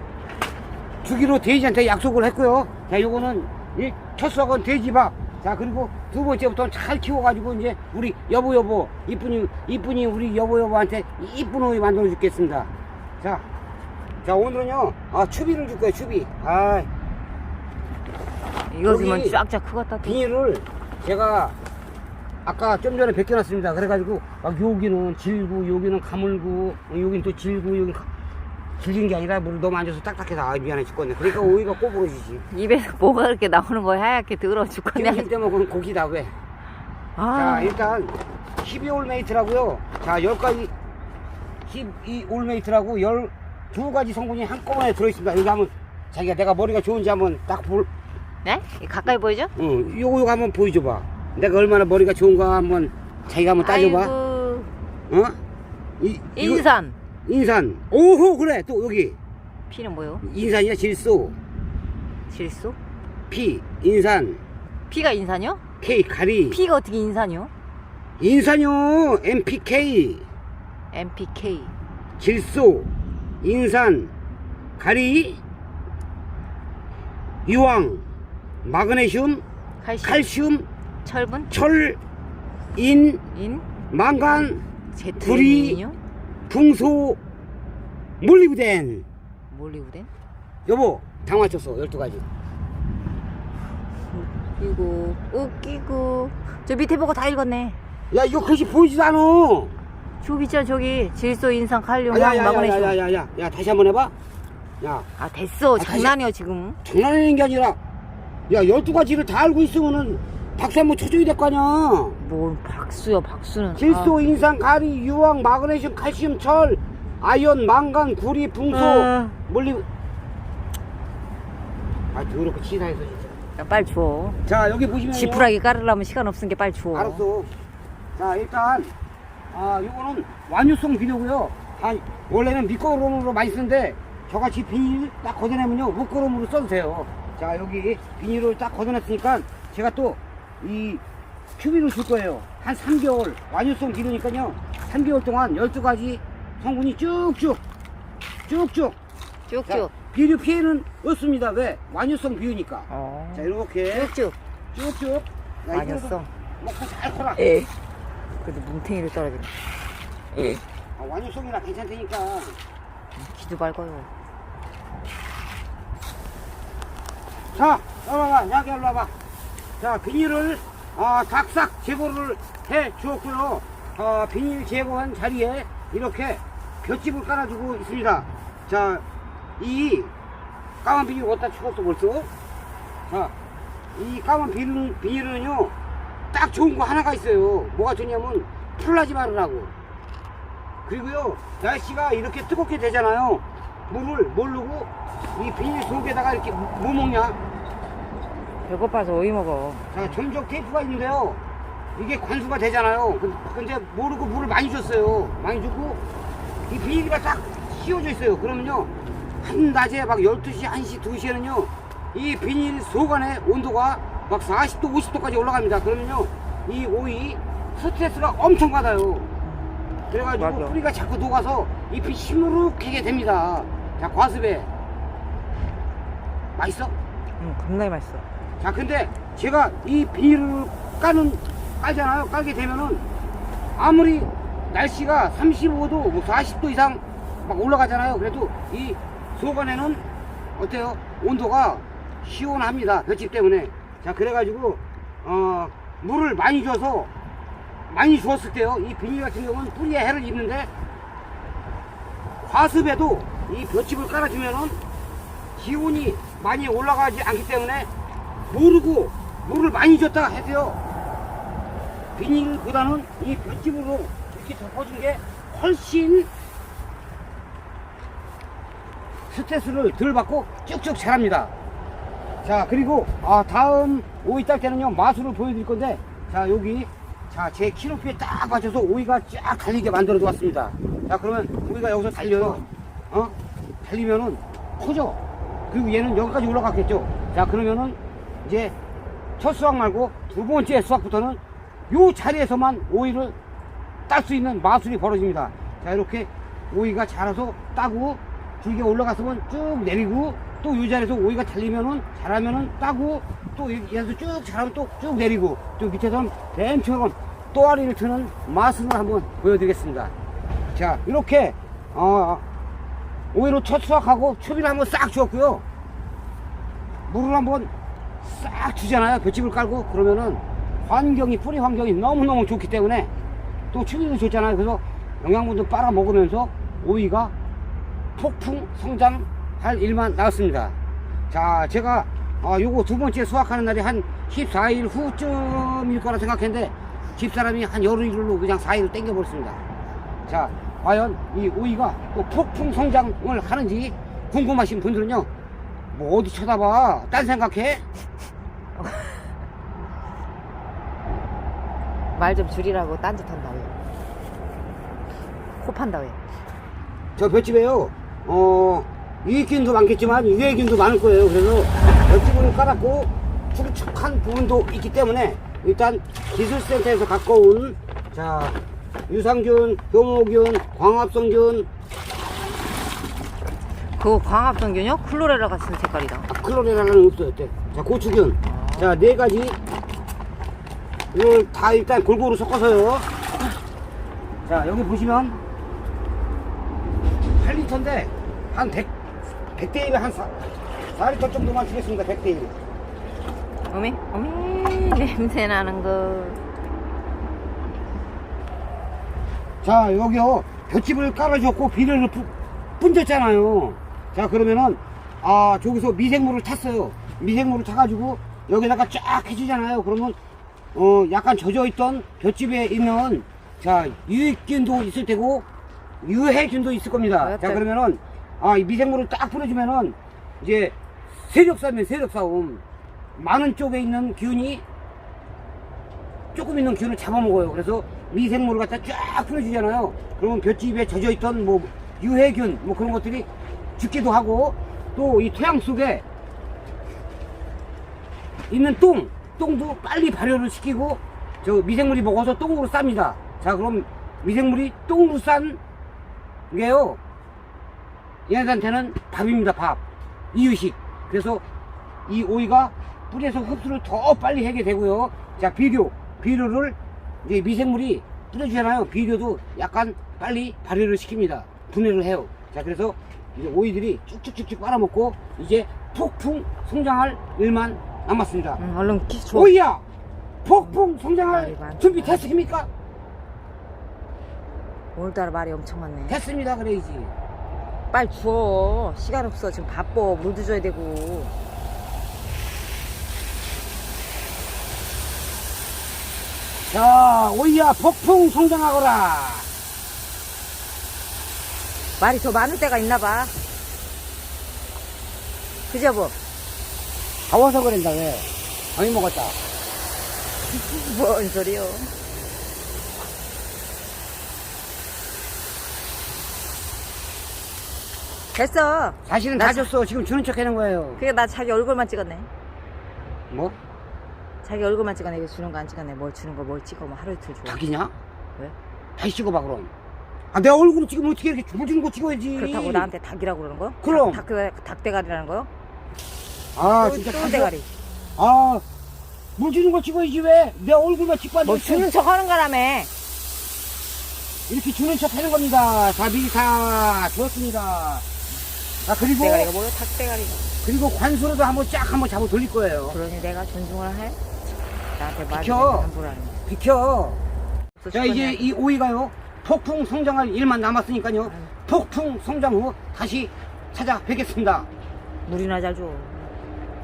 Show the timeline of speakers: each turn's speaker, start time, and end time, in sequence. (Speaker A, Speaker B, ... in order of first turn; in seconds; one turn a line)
Speaker A: 1.0-12.7
Speaker A: 14.2-16.9
Speaker B: 18.7-20.2
Speaker A: 18.9-19.4
Speaker A: 20.0-21.6
Speaker A: 22.4-28.1
Speaker A: 28.8-32.5
Speaker B: 32.5-35.3
Speaker A: 34.9-36.3
Speaker B: 37.2-37.8
Speaker A: 37.3-40.7
Speaker A: 41.7-47.9
Speaker B: 48.4-49.5
Speaker A: 49.5-54.1
Speaker B: 53.6-54.7
Speaker A: 55.1-55.4
Speaker A: 56.0-56.6
Speaker B: 56.3-57.0
Speaker A: 57.2-59.2
Speaker B: 59.7-60.2
Speaker A: 60.2-61.3
Speaker B: 62.3-62.8
Speaker A: 63.3-64.4
Speaker B: 64.9-65.6
Speaker A: 65.8-66.6
Speaker B: 66.5-67.5
Speaker A: 68.2-70.2
Speaker B: 70.9-71.7
Speaker A: 72.2-72.9
Speaker A: 73.4-74.1
Speaker A: 74.8-75.4
Speaker A: 77.5-78.0
Speaker A: 78.6-79.4
Speaker B: 79.8-80.3
Speaker A: 80.0-80.7
Speaker B: 81.0-81.5
Speaker A: 81.5-82.0
Speaker A: 82.8-83.2
Speaker B: 83.3-83.7
Speaker A: 83.9-84.6
Speaker B: 84.9-86.0
Speaker A: 85.2-85.8
Speaker A: 86.5-87.2
Speaker A: 88.2-89.0
Speaker B: 89.5-90.1
Speaker A: 90.7-92.2
Speaker B: 94.1-97.8
Speaker A: 98.1-99.7
Speaker B: 100.2-103.0
Speaker A: 102.1-104.1
Speaker A: 104.8-105.0
Speaker B: 105.2-106.8
Speaker A: 105.8-106.1
Speaker A: 106.8-107.8
Speaker A: 108.5-112.2
Speaker B: 112.2-114.1
Speaker A: 113.8-119.8
Speaker B: 118.7-119.3
Speaker A: 122.1-123.4
Speaker B: 123.6-124.4
Speaker A: 124.5-125.5
Speaker B: 125.1-127.2
Speaker A: 126.9-127.5
Speaker A: 128.2-128.9
Speaker A: 129.5-141.0
Speaker A: 141.6-147.6
Speaker A: 148.5-148.9
Speaker B: 149.5-149.9
Speaker A: 149.7-154.1
Speaker B: 152.9-154.3
Speaker A: 154.7-157.5
Speaker B: 155.7-156.3
Speaker B: 157.4-157.7
Speaker B: 158.4-159.5
Speaker A: 161.0-162.6
Speaker B: 163.2-164.1
Speaker A: 167.5-169.1
Speaker A: 169.8-179.0
Speaker A: 179.6-180.1
Speaker A: 180.8-182.3
Speaker A: 183.9-185.7
Speaker A: 186.3-189.7
Speaker A: 190.8-197.4
Speaker B: 198.7-200.2
Speaker A: 199.9-201.4
Speaker A: 201.9-206.0
Speaker A: 206.7-219.3
Speaker B: 219.4-219.7
Speaker A: 220.1-224.7
Speaker B: 220.3-220.8
Speaker A: 226.5-226.9
Speaker B: 227.4-228.2
Speaker A: 228.6-233.0
Speaker A: 233.8-240.0
Speaker A: 240.6-247.1
Speaker A: 247.9-250.7
Speaker A: 252.4-254.8
Speaker A: 255.6-257.9
Speaker A: 258.5-260.8
Speaker A: 262.1-266.3
Speaker A: 269.3-271.5
Speaker A: 272.4-285.2
Speaker B: 282.2-282.6
Speaker A: 285.7-288.7
Speaker A: 289.4-291.4
Speaker A: 291.9-293.3
Speaker A: 294.1-310.1
Speaker A: 310.7-312.4
Speaker A: 313.3-315.6
Speaker A: 317.1-317.7
Speaker A: 318.2-323.1
Speaker A: 323.7-327.3
Speaker A: 328.1-330.7
Speaker A: 331.3-339.6
Speaker A: 340.3-345.3
Speaker A: 345.9-347.8
Speaker B: 348.8-349.3
Speaker B: 352.1-353.7
Speaker B: 355.6-356.2
Speaker A: 357.2-371.7
Speaker B: 374.0-376.3
Speaker A: 376.3-379.6
Speaker B: 378.4-378.9
Speaker A: 381.1-383.1
Speaker A: 384.4-385.4
Speaker A: 387.4-388.9
Speaker A: 389.6-390.3
Speaker A: 390.9-392.5
Speaker B: 393.7-396.4
Speaker A: 399.6-410.1
Speaker A: 410.7-415.4
Speaker A: 416.0-422.6
Speaker B: 417.2-417.6
Speaker A: 423.2-424.6
Speaker A: 426.3-433.3
Speaker A: 433.8-436.0
Speaker A: 438.5-445.6
Speaker A: 446.5-447.0
Speaker A: 448.3-449.8
Speaker A: 450.3-451.4
Speaker A: 452.1-468.6
Speaker B: 468.6-469.5
Speaker A: 469.3-469.8
Speaker A: 470.4-472.7
Speaker B: 470.6-472.3
Speaker B: 474.9-476.2
Speaker A: 476.1-477.1
Speaker B: 477.9-481.3
Speaker A: 486.6-489.5
Speaker B: 492.0-493.3
Speaker B: 495.7-496.1
Speaker A: 497.3-499.4
Speaker B: 500.5-501.9
Speaker B: 508.3-509.7
Speaker A: 509.0-511.0
Speaker B: 511.0-512.3
Speaker B: 514.4-517.6
Speaker A: 517.5-517.9
Speaker A: 519.0-519.7
Speaker A: 520.3-522.9
Speaker B: 522.4-525.5
Speaker A: 523.8-524.2
Speaker A: 526.5-527.5
Speaker B: 526.8-527.7
Speaker A: 528.2-528.6
Speaker A: 529.4-531.9
Speaker B: 531.4-532.9
Speaker A: 534.5-538.0
Speaker A: 538.8-539.5
Speaker B: 539.0-540.5
Speaker A: 540.6-543.0
Speaker B: 542.9-544.2
Speaker B: 545.0-546.4
Speaker A: 545.3-545.9
Speaker A: 546.5-547.2
Speaker B: 547.8-548.5
Speaker A: 547.9-554.7
Speaker B: 551.2-551.5
Speaker B: 555.3-556.3